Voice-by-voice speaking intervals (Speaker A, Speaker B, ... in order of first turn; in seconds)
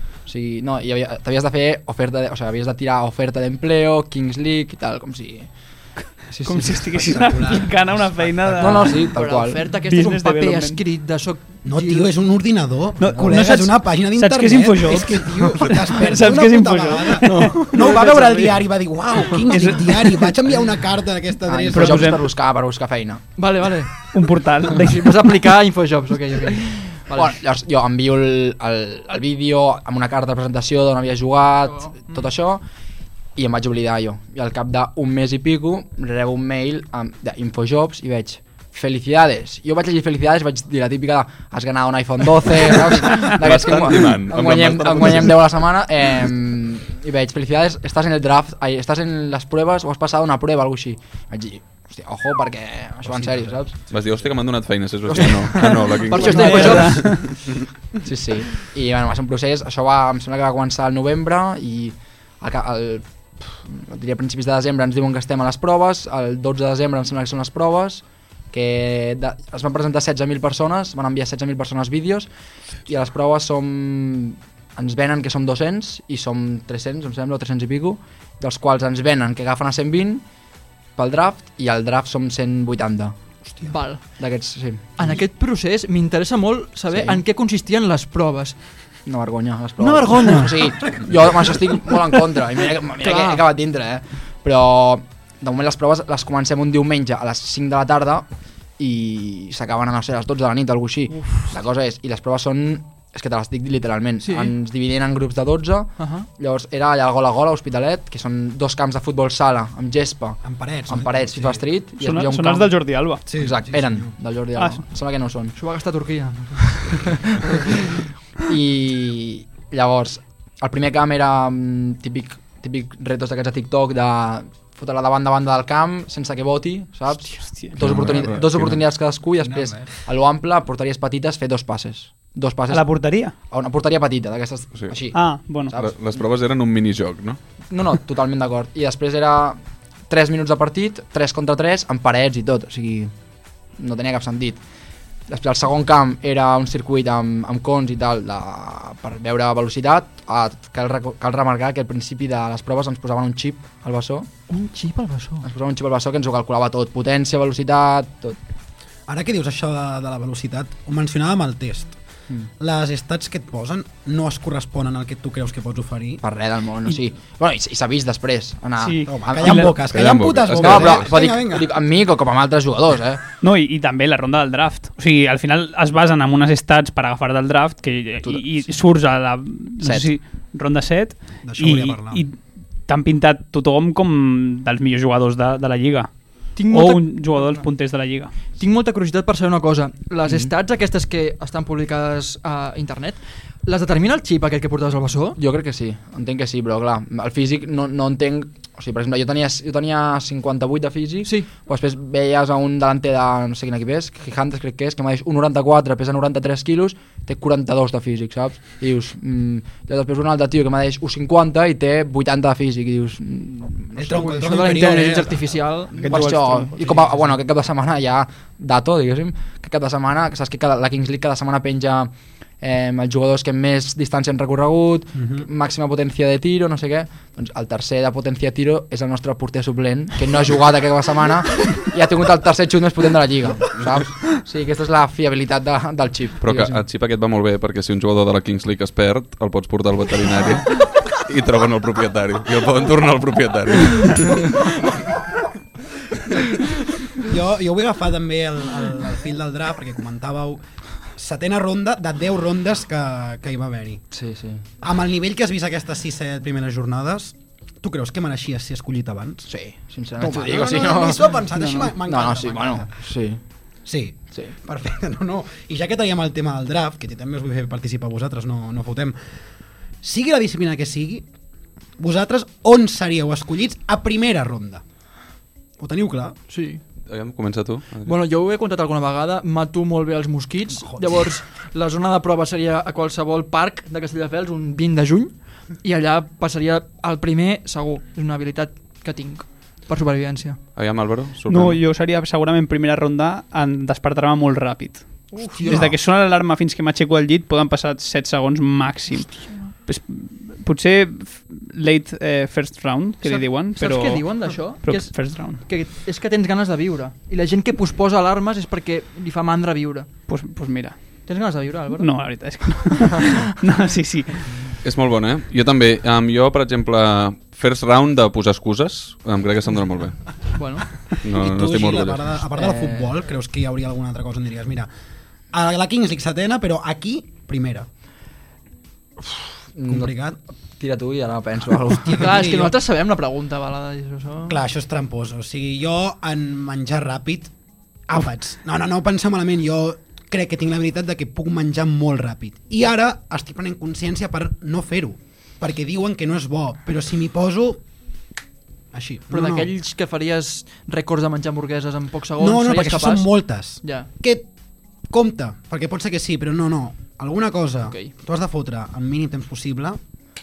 Speaker A: 0.2-5.5, 8.6-9.6, 21.5-23.2, 27.1-32.6, 33.4-53.7, 56.4-57.2, 58.0-72.3, 72.8-80.2, 81.0-83.1, 84.1-85.2, 86.9-87.2, 89.0-98.2, 98.8-115.5, 118.5-135.9, 137.7-143.1, 143.8-144.6, 145.3-154.3, 155.4-158.4, 166.2-169.7, 170.5-173.2, 178.2-178.6, 179.8-180.1, 190.2-190.5, 195.3-214.3, 216.0-236.8, 254.1-254.6, 259.5-261.4, 262.0-263.4, 322.6-323.1, 329.2-330.1, 330.8-332.3
Speaker B: 6.3-8.9, 11.6-22.2, 53.1-54.3, 110.4-111.6, 113.3-114.1, 128.0-128.6, 129.4-130.0, 159.1-161.9, 162.6-166.2, 169.1-171.7, 181.4-182.2, 213.9-216.1, 225.2-225.4, 247.2-250.6, 251.1-254.0, 254.8-259.5, 260.2-263.0, 263.8-269.1, 270.0-271.2, 272.0-274.8, 275.8-276.4, 280.8-281.2, 295.6-295.9, 321.3-324.9, 325.5-327.9, 329.8-330.4, 331.9-332.7, 334.5-337.5, 338.1-347.8, 348.9-349.7, 352.4-354.5, 355.1-360.0
Speaker C: 6.4-9.1, 9.8-10.8, 13.0-17.9, 19.3-20.4, 21.7-22.2, 24.1-25.1, 56.4-57.3, 112.0-113.2, 114.5-114.8, 127.2-127.7, 132.7-133.3, 135.1-135.7, 168.8-169.7, 173.4-186.1, 186.6-188.3, 216.0-216.7, 261.6-261.9, 291.5-305.6, 310.3-311.0, 312.0-314.5
Speaker D: 9.0-12.1, 17.7-18.5, 23.4-24.1, 24.7-27.4, 31.7-32.1, 55.2-57.2, 83.7-84.2, 85.0-88.6, 89.8-90.8, 93.0-93.4, 104.2-104.5, 106.0-106.3, 115.5-117.8, 154.5-155.4, 186.6-187.7, 188.5-195.4, 214.1-216.0, 276.5-276.8, 278.0-290.6, 295.4-295.6, 303.2-310.1, 311.3-312.3, 320.5-321.1, 332.2-334.6, 349.3-354.1
Speaker E: 43.1-45.5, 53.9-57.6, 127.8-128.8, 135.7-137.4, 169.7-171.0, 236.4-244.7, 277.1-278.1, 290.8-291.8, 314.8-320.4, 321.2-322.2